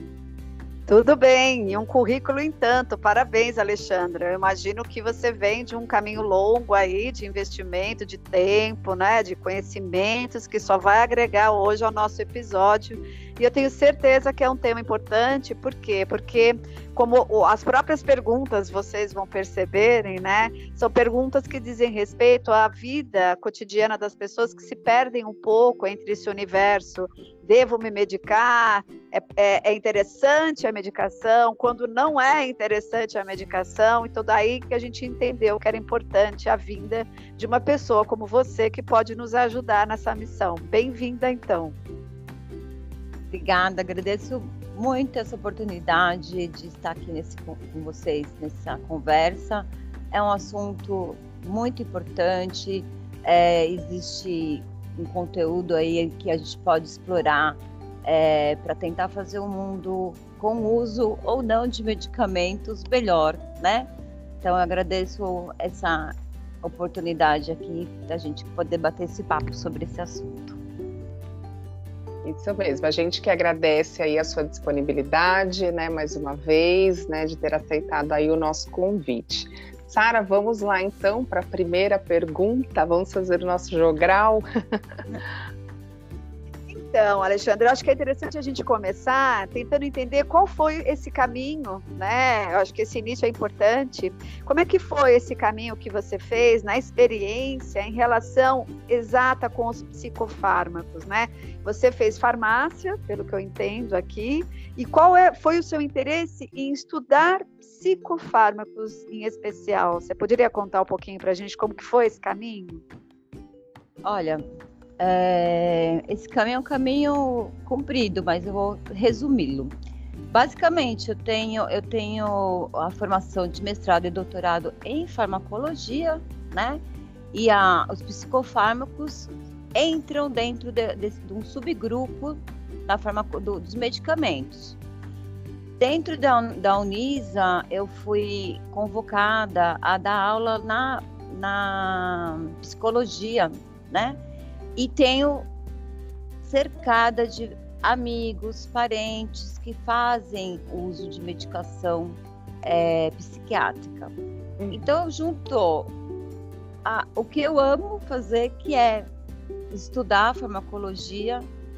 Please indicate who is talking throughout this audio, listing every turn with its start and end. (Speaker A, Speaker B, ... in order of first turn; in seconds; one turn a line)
Speaker A: 0.9-41.8
Speaker B: 43.3-63.9
Speaker B: 64.4-70.6
Speaker C: 72.2-84.5
Speaker A: 86.7-112.8
Speaker B: 114.0-114.4
Speaker B: 115.0-119.7
Speaker B: 120.3-126.8
Speaker B: 127.3-134.8
Speaker B: 135.8-144.2
Speaker B: 144.8-145.5
Speaker B: 146.4-154.1
Speaker C: 154.6-154.8
Speaker B: 154.7-155.9
Speaker B: 156.8-159.1
Speaker B: 159.7-161.5